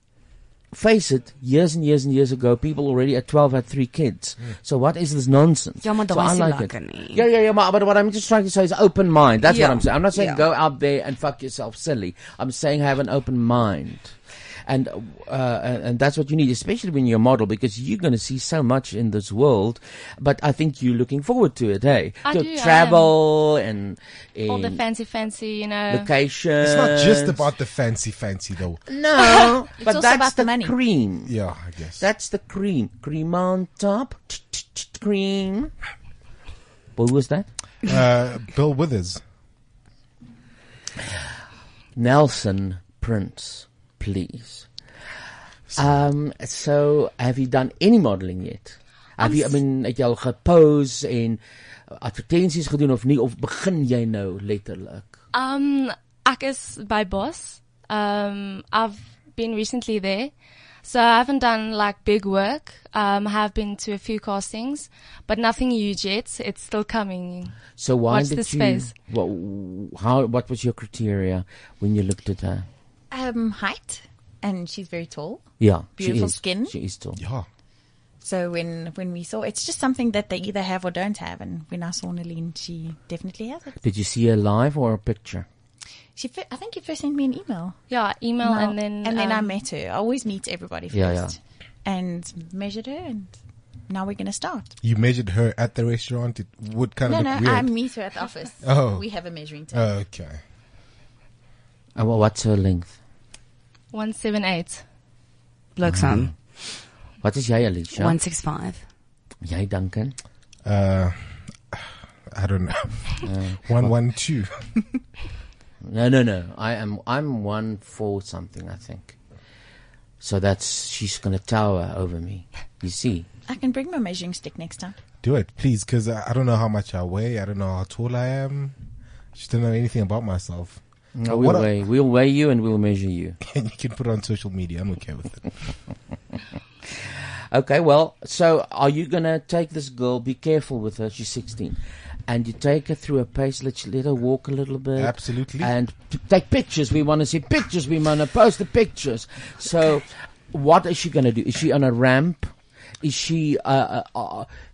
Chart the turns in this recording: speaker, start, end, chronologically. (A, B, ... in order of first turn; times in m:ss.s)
0:00.7-0:24.8 A
0:05.8-0:07.2 B
0:09.4-0:10.4 B
0:22.2-0:23.1 C
0:24.5-0:26.1 C
0:25.9-0:27.4 A
0:26.6-0:28.8 D
0:28.9-0:31.3 A
0:29.8-0:30.7 E
0:31.3-0:32.1 D
0:32.0-0:35.7 A
0:37.0-0:37.5 A
0:37.8-0:39.2 D
0:42.0-0:44.7 A
0:45.7-0:51.4 A
0:49.2-0:49.6 C
0:51.9-0:55.2 A
0:55.3-1:07.6 C
1:07.8-1:12.7 A
1:08.1-1:08.9 C
1:13.1-1:16.7 E
1:15.6-1:17.2 A
1:17.2-1:17.5 D
1:18.2-1:23.7 E
1:23.8-1:25.5 A
1:26.1-1:27.8 E
1:27.9-1:29.6 C
1:28.4-1:33.4 E
1:30.9-1:31.3 A
1:33.9-1:34.7 E
1:34.8-1:37.7 D
1:37.0-1:39.8 E
1:38.6-1:39.1 D
1:39.7-1:40.4 D
1:42.0-1:43.0 A
1:43.9-1:44.8 C
1:45.8-1:46.3 B
1:45.9-1:46.3 A
1:47.2-1:48.2 A
1:48.0-1:48.8 B
1:49.4-1:50.1 A
1:50.6-1:51.2 D
1:51.7-1:54.5 D
1:53.2-1:53.9 A
1:55.8-1:59.2 A
2:00.2-2:03.3 A
2:03.5-2:04.9 E
2:05.2-2:08.8 D
2:09.3-2:11.7 D
2:11.2-2:13.4 A
2:13.4-2:15.5 D
2:17.5-2:34.5 A
2:25.0-2:25.7 D